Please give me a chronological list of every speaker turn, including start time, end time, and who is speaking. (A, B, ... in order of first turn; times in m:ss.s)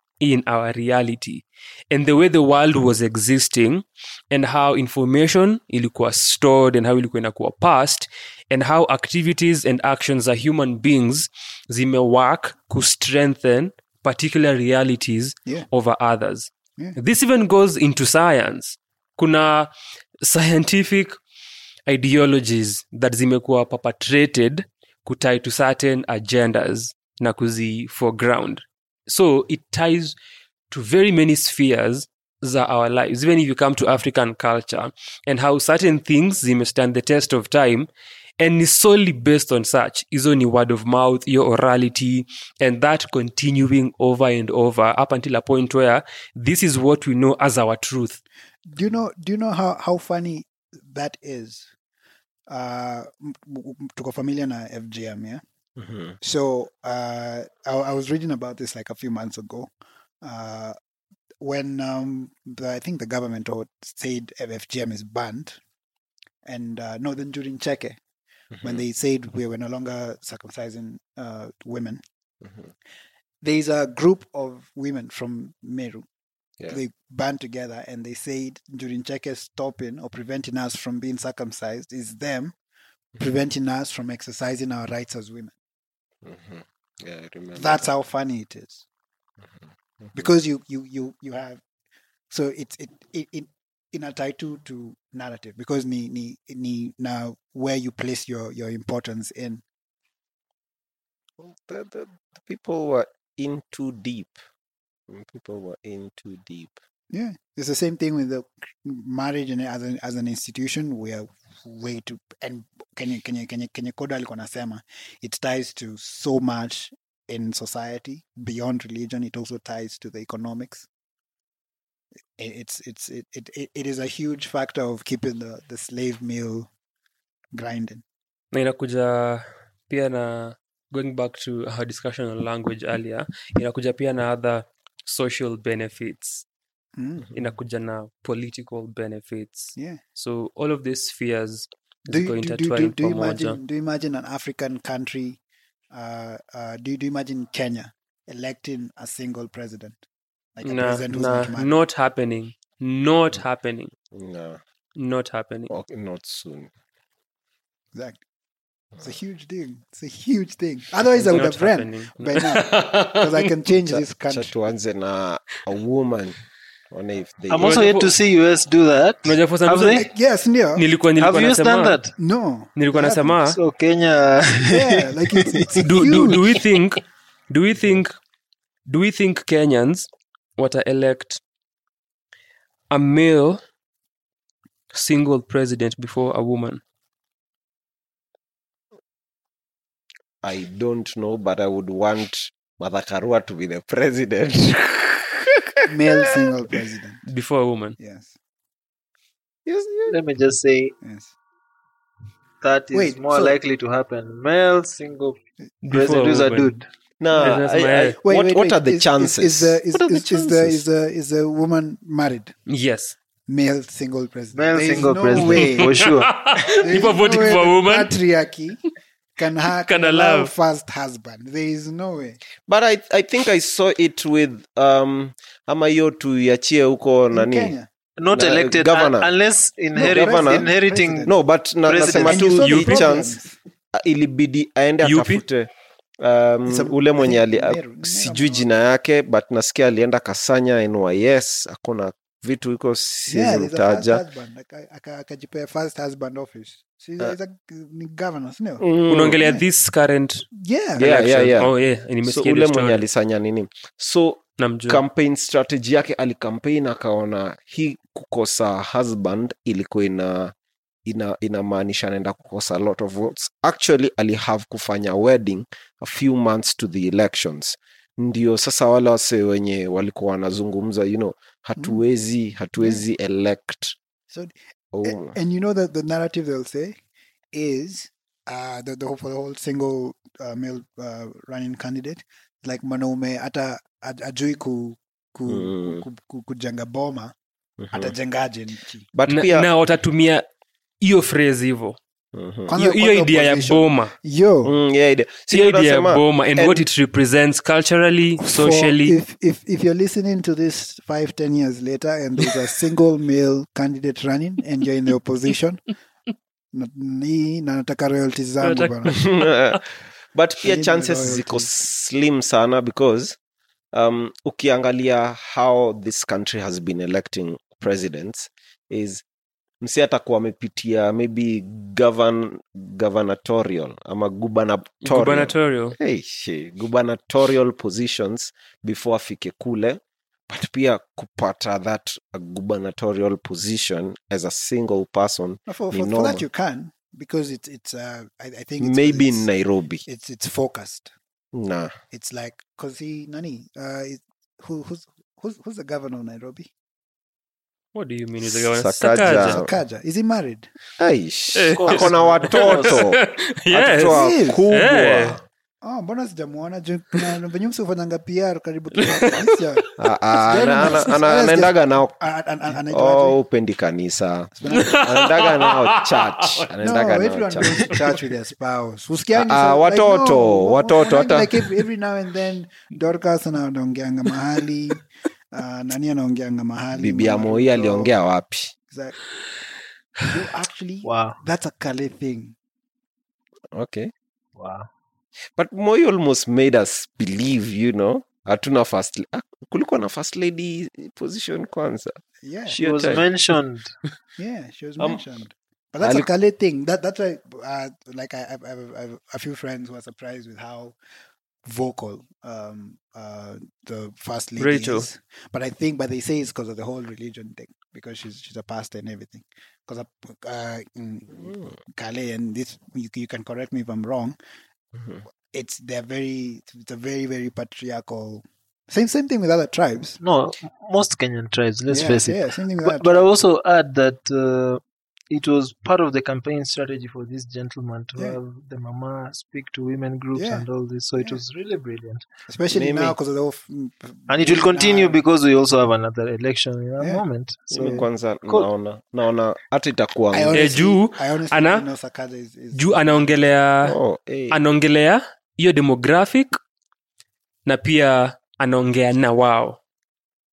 0:00.2-0:21.2 A
0:21.9-0:30.2 A
0:30.7-0:37.9 A
0:38.4-0:48.2 A
0:48.7-0:51.7 B
0:52.5-0:55.4 B
0:55.8-0:56.2 C
0:56.2-1:00.8 B
1:01.4-1:05.6 B
1:06.4-1:08.0 B
1:08.5-1:08.8 C
1:08.6-1:12.0 B
1:12.4-1:12.7 C
1:13.4-1:16.1 B
1:16.7-1:22.6 B
1:23.2-1:25.5 B
1:26.2-1:27.9 C
1:27.6-1:28.8 B
1:29.4-1:30.3 C
1:30.1-1:31.6 B
1:32.3-1:39.6 B
1:41.4-1:44.4 C
1:45.1-1:46.8 C
1:47.1-2:00.9 B
2:02.4-2:06.7 B
2:07.5-2:08.0 B
2:08.5-2:16.4 A
2:17.0-2:17.3 B
2:17.3-2:23.6 A
2:19.8-2:20.0 B
2:22.1-2:30.0 B
2:30.6-2:31.8 B
2:30.6-2:33.9 A
2:34.1-2:34.6 C
2:35.0-2:35.7 A
2:35.7-2:36.7 C
2:37.9-2:38.2 B
2:39.0-2:44.5 B
2:41.2-2:43.5 A
2:43.9-2:48.1 C
2:47.5-2:50.1 D
2:47.6-2:48.2 A
2:49.2-2:50.1 A
2:50.0-2:50.8 B
2:50.8-2:52.0 A
2:51.2-2:52.2 D
2:52.2-2:53.4 B
2:52.8-2:53.6 A
2:53.5-2:55.8 D
2:54.7-2:56.6 B
2:55.8-2:58.2 A
2:58.9-3:01.4 A
3:02.9-3:03.6 A
3:04.9-3:06.8 A
3:10.4-3:16.6 C
3:15.9-3:17.3 B
3:17.3-3:18.0 A
3:18.0-3:18.4 B
3:19.7-3:20.2 C
3:20.1-3:21.0 D
3:21.0-3:21.3 B
3:22.6-3:25.4 D
3:22.9-3:23.6 B
3:25.8-3:26.7 A
3:25.9-3:27.6 D
3:27.2-3:30.8 C
3:27.4-3:28.2 A
3:28.2-3:32.6 B
3:32.7-3:33.2 A
3:33.5-3:36.1 B
3:34.5-3:36.4 D
3:35.4-3:38.1 A
3:36.8-3:38.8 B
3:39.4-3:42.4 B
3:39.8-3:40.5 A
3:42.7-3:47.8 C
3:47.3-3:47.9 B
3:48.2-3:51.3 D
3:48.3-3:49.3 C
3:50.0-3:51.4 B
3:50.0-3:50.7 C
3:51.2-3:53.3 C
3:51.8-3:52.5 D
3:52.2-3:53.6 B
3:52.5-3:53.3 A
3:53.9-3:55.7 C
3:55.0-3:55.4 A
3:56.2-4:04.2 C
3:56.7-3:58.6 B
4:03.3-4:08.9 B
4:08.8-4:09.4 C
4:09.1-4:10.5 A
4:10.6-4:11.2 B
4:11.0-4:11.7 C
4:11.0-4:13.0 A
4:12.2-4:20.5 C
4:14.6-4:15.0 A
4:21.1-4:34.0 C
4:32.8-4:33.0 B
4:34.3-4:37.0 B
4:34.9-4:35.4 C
4:37.5-4:47.4 B
4:45.5-4:46.0 C
4:47.8-4:48.2 C
4:47.9-4:49.1 B
4:49.1-4:49.7 C
4:49.3-4:50.5 A
4:51.0-4:52.0 A
4:52.3-4:52.7 C
4:52.7-4:54.7 B
4:52.8-4:54.1 A
4:54.6-4:56.9 C
4:55.5-4:59.2 A
4:58.4-5:05.8 B
5:06.7-5:09.2 B
5:08.6-5:09.3 A
5:09.1-5:13.4 C
5:10.6-5:11.7 B
5:13.9-5:19.2 C
5:19.8-5:36.4 C
5:25.0-5:26.0 A
5:35.7-5:39.5 B
5:38.8-5:40.0 C
5:40.1-5:41.1 B
5:41.5-5:42.0 C
5:42.1-5:46.7 B
5:47.9-5:49.6 A
5:48.4-5:49.7 C
5:49.2-5:50.7 B
5:51.0-5:55.4 C
5:51.6-5:55.4 A
5:51.8-5:53.0 D
5:54.1-5:54.7 B
5:55.8-6:03.4 B
5:58.9-5:59.9 A
6:00.0-6:02.2 C
6:02.9-6:08.1 C
6:04.6-6:05.0 B
6:04.7-6:06.3 A
6:06.8-6:18.1 B
6:09.3-6:11.8 C
6:17.0-6:18.7 C
6:18.9-6:19.2 B
6:20.3-6:22.6 B
6:21.0-6:21.4 D
6:23.7-6:24.1 C
6:24.6-6:24.9 D
6:25.6-6:33.3 C
6:32.4-6:32.8 B
6:32.8-6:34.0 D
6:34.4-6:41.0 B
6:36.0-6:36.3 C
6:41.6-6:54.4 B
6:44.6-6:45.1 A
6:51.4-6:51.7 C
6:55.0-6:55.2 C
6:55.5-7:00.2 B
7:00.2-7:12.2 D
7:01.9-7:03.2 B
7:10.3-7:10.7 B
7:12.5-7:15.2 B
7:12.7-7:13.2 C
7:14.3-7:18.7 D
7:17.7-7:20.6 C
7:20.3-7:23.4 B
7:20.5-7:21.9 A
7:22.7-7:24.0 A
7:23.8-7:24.6 C
7:24.5-7:26.6 A
7:27.7-7:29.8 A